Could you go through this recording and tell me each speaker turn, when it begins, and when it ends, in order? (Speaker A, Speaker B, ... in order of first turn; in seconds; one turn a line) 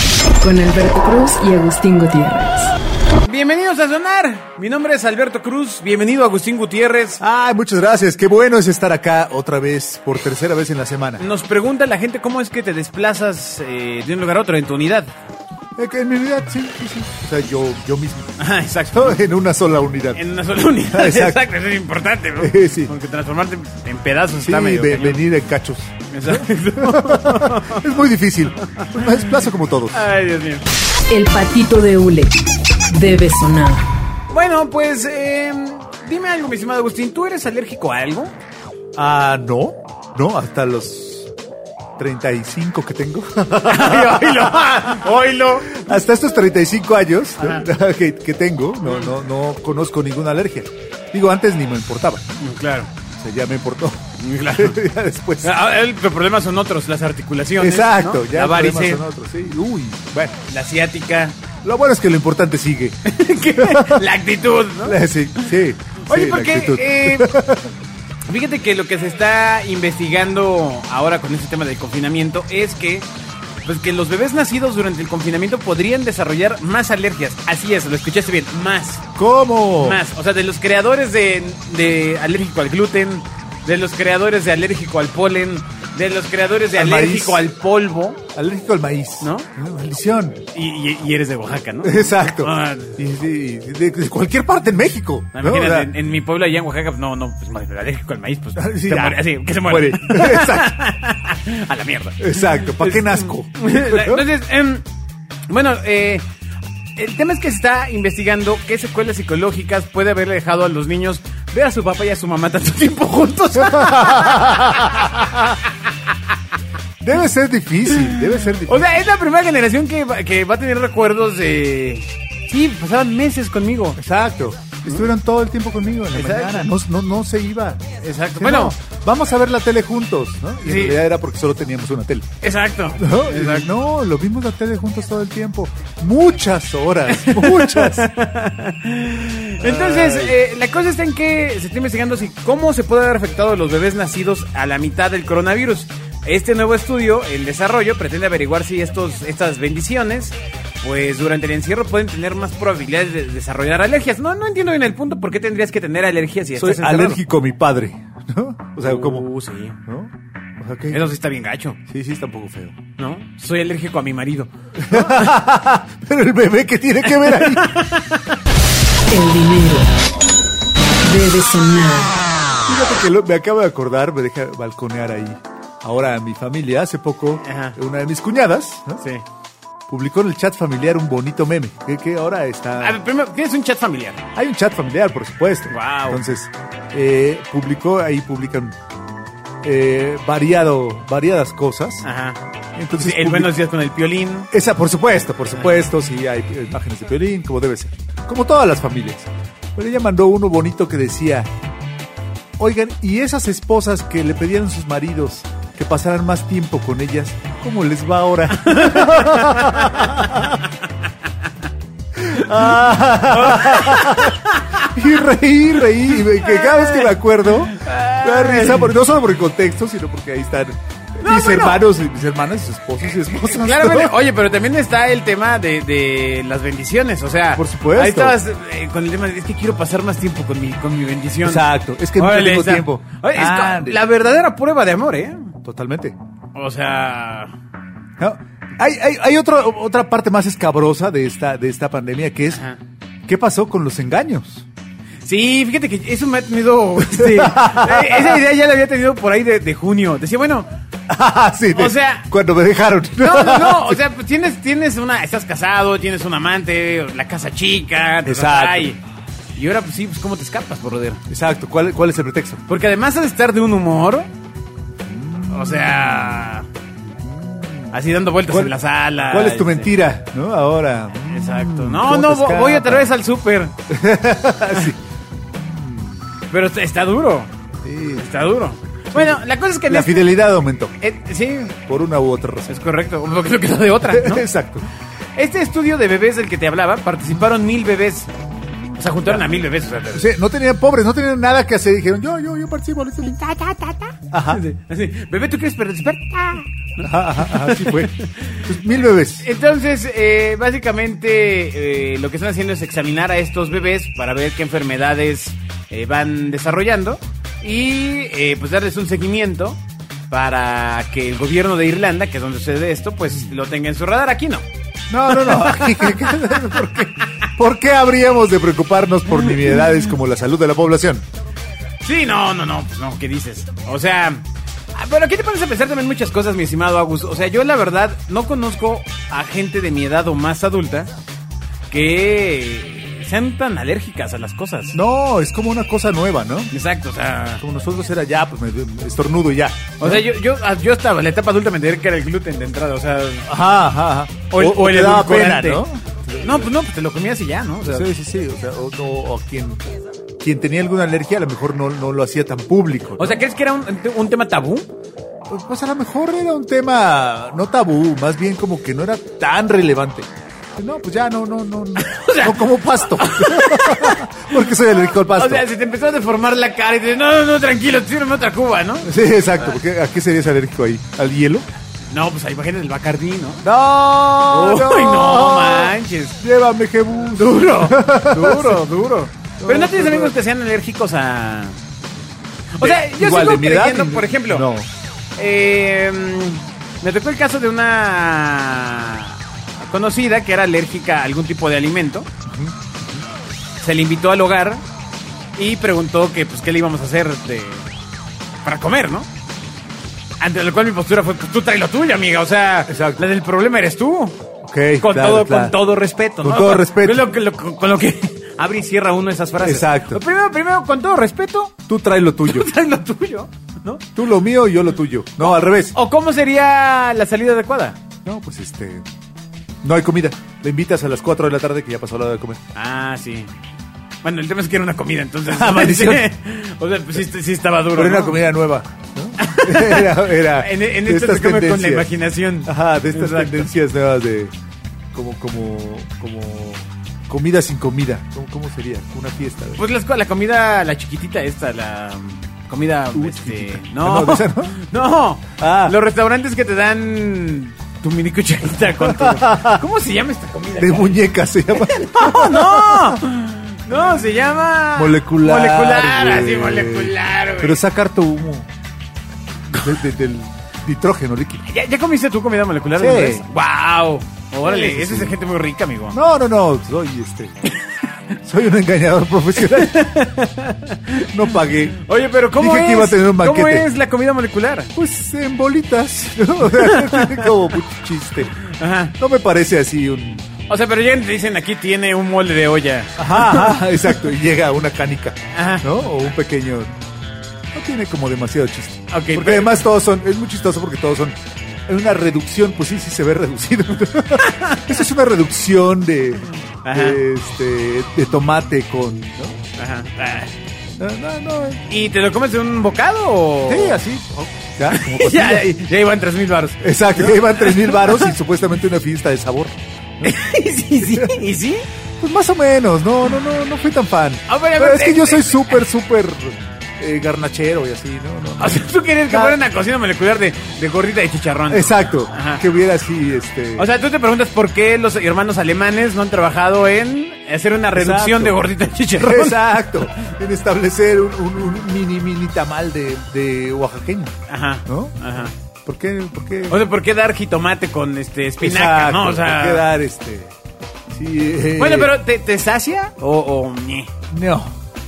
Speaker A: 0.4-2.7
Speaker B: 3.2-7.2
Speaker C: 7.2-11.2
Speaker B: 11.2-15.1
Speaker C: 15.8-20.2
Speaker B: 18.4-19.2
Speaker B: 20.1-25.2
Speaker C: 20.9-21.4
Speaker C: 22.4-22.9
Speaker C: 24.4-30.1
Speaker B: 26.1-27.9
Speaker B: 28.8-29.4
Speaker B: 29.9-30.7
Speaker A: 31.1-32.4
Speaker A: 32.9-33.9
Speaker B: 34.3-38.3
Speaker C: 39.0-41.3
Speaker C: 42.0-45.0
Speaker B: 43.6-45.9
Speaker C: 45.7-52.2
Speaker B: 47.4-47.6
Speaker B: 48.8-49.1
Speaker B: 52.4-52.9
Speaker C: 53.1-55.5
Speaker B: 54.2-54.8
Speaker B: 55.4-59.0
Speaker C: 57.6-60.4
Speaker B: 60.5-61.4
Speaker C: 61.6-63.0
Speaker B: 63.0-65.5
Speaker C: 63.5-64.0
Speaker C: 64.8-67.7
Speaker B: 66.1-67.3
Speaker B: 68.3-73.1
Speaker B: 73.7-79.0
Speaker C: 79.2-80.0
Speaker B: 79.8-88.2
Speaker C: 86.7-87.5
Speaker C: 88.3-90.5
Speaker B: 89.2-89.5
Speaker B: 90.5-93.0
Speaker C: 91.8-95.9
Speaker B: 95.3-104.8
Speaker C: 98.6-100.8
Speaker C: 102.2-104.2
Speaker B: 105.5-106.2
Speaker B: 107.0-115.7
Speaker C: 113.5-115.6
Speaker C: 117.0-119.0
Speaker B: 117.9-124.0
Speaker C: 124.0-127.9
Speaker B: 126.1-126.7
Speaker B: 128.0-128.8
Speaker C: 128.4-132.3
Speaker B: 130.6-131.0
Speaker B: 132.4-133.7
Speaker C: 133.0-138.1
Speaker B: 137.1-157.2
Speaker C: 139.6-140.4
Speaker C: 156.6-159.3
Speaker B: 158.8-159.8
Speaker C: 159.9-161.0
Speaker B: 160.9-161.8
Speaker C: 161.9-162.8
Speaker B: 163.0-165.3
Speaker C: 164.8-167.8
Speaker B: 167.2-168.2
Speaker A: 169.1-169.9
Speaker A: 171.0-172.2
Speaker C: 172.7-179.0
Speaker B: 177.4-177.8
Speaker C: 179.9-183.0
Speaker B: 182.8-184.2
Speaker C: 184.3-188.8
Speaker B: 185.7-186.2
Speaker C: 189.6-192.1
Speaker B: 192.0-192.4
Speaker C: 192.8-193.5
Speaker B: 193.0-194.5
Speaker C: 194.5-201.6
Speaker C: 202.6-210.6
Speaker B: 208.6-210.2
Speaker C: 212.2-224.2
Speaker B: 212.4-212.7
Speaker B: 213.3-214.9
Speaker B: 216.2-218.9
Speaker B: 221.2-221.8
Speaker B: 223.2-235.5
Speaker C: 227.6-228.4
Speaker C: 231.4-234.0
Speaker C: 235.6-236.2
Speaker B: 236.6-237.5
Speaker C: 238.2-242.6
Speaker B: 242.5-242.8
Speaker C: 243.3-244.7
Speaker B: 245.2-250.7
Speaker C: 247.0-248.4
Speaker C: 251.1-254.0
Speaker B: 251.7-252.3
Speaker B: 253.2-259.0
Speaker C: 258.2-258.9
Speaker B: 259.6-261.2
Speaker C: 261.3-262.6
Speaker B: 262.7-264.3
Speaker C: 265.0-266.5
Speaker B: 265.5-266.7
Speaker C: 267.2-268.0
Speaker B: 267.9-269.9
Speaker C: 268.5-273.1
Speaker B: 271.3-273.7
Speaker C: 273.9-275.0
Speaker C: 275.5-276.2
Speaker B: 276.5-277.5
Speaker C: 277.8-278.3
Speaker B: 278.2-280.4
Speaker C: 279.1-280.9
Speaker B: 281.0-281.8
Speaker C: 281.9-282.8
Speaker B: 282.7-284.5
Speaker C: 284.1-284.9
Speaker B: 285.4-288.3
Speaker B: 288.9-290.3
Speaker C: 290.1-293.4
Speaker B: 293.4-298.7
Speaker C: 294.3-294.6
Speaker C: 297.0-298.1
Speaker C: 298.6-299.5
Speaker B: 299.4-314.6
Speaker C: 315.1-321.2
Speaker B: 315.3-317.0
Speaker B: 322.0-324.4
Speaker B: 324.9-331.1
Speaker B: 331.9-335.0
Speaker C: 334.9-336.7
Speaker B: 336.7-337.6
Speaker C: 337.6-340.2
Speaker B: 340.0-343.5
Speaker C: 343.5-346.7
Speaker B: 344.5-345.8
Speaker B: 346.4-348.1
Speaker C: 347.9-349.8
Speaker C: 350.4-353.4
Speaker B: 353.2-354.9
Speaker C: 355.5-365.7
Speaker B: 362.0-369.1
Speaker C: 369.0-371.7
Speaker B: 372.1-373.7
Speaker C: 373.6-378.9
Speaker B: 374.5-376.4
Speaker B: 377.4-381.8
Speaker C: 379.6-380.4
Speaker B: 382.8-384.7
Speaker C: 382.8-384.9
Speaker B: 385.4-392.3
Speaker C: 392.5-393.3
Speaker B: 393.8-394.8
Speaker B: 395.6-397.9
Speaker B: 398.6-399.3
Speaker B: 400.4-404.4
Speaker C: 402.9-403.2
Speaker C: 404.6-405.8
Speaker B: 405.0-411.8
Speaker C: 406.4-407.3
Speaker C: 409.6-410.2
Speaker C: 411.9-412.7
Speaker B: 412.5-414.1
Speaker C: 414.2-416.0
Speaker B: 415.4-418.0
Speaker C: 418.2-419.1
Speaker C: 419.8-422.6
Speaker B: 422.7-423.5
Speaker B: 424.2-428.4
Speaker C: 425.5-426.3
Speaker C: 428.0-432.1
Speaker B: 429.4-433.7
Speaker C: 432.6-434.5
Speaker C: 435.1-439.8
Speaker B: 439.8-451.2
Speaker C: 443.1-444.9
Speaker C: 445.6-446.0
Speaker C: 449.0-449.9
Speaker C: 450.8-453.2
Speaker B: 451.8-457.8
Speaker C: 454.9-458.7
Speaker C: 459.7-461.7
Speaker B: 461.7-466.2
Speaker C: 463.0-463.4
Speaker C: 464.6-465.4
Speaker C: 466.1-467.6
Speaker C: 468.4-470.1
Speaker B: 469.6-474.9
Speaker C: 471.2-472.0
Speaker C: 472.6-473.9
Speaker C: 474.9-478.6
Speaker B: 476.6-477.7
Speaker B: 478.7-479.1
Speaker C: 479.2-480.5
Speaker B: 480.7-483.9
Speaker C: 483.2-486.9
Speaker B: 485.5-486.3
Speaker C: 487.7-499.6
Speaker B: 489.1-489.8
Speaker B: 494.4-495.0
Speaker B: 496.8-497.2
Speaker B: 499.8-500.5
Speaker C: 501.0-501.8
Speaker B: 501.9-504.0
Speaker C: 503.7-505.7
Speaker B: 504.9-508.3
Speaker C: 506.8-510.4
Speaker B: 510.2-511.9
Speaker C: 511.0-511.4
Speaker C: 512.2-519.6
Speaker B: 514.5-515.8
Speaker B: 518.6-522.6
Speaker C: 521.7-523.9
Speaker B: 523.8-530.0
Speaker C: 527.9-528.6
Speaker C: 529.2-534.4
Speaker B: 534.5-535.5
Speaker C: 534.9-535.2
Speaker C: 535.9-536.8
Speaker B: 536.7-539.9
Speaker C: 538.6-540.5
Speaker C: 541.1-542.1
Speaker B: 541.8-544.1
Speaker C: 544.3-544.7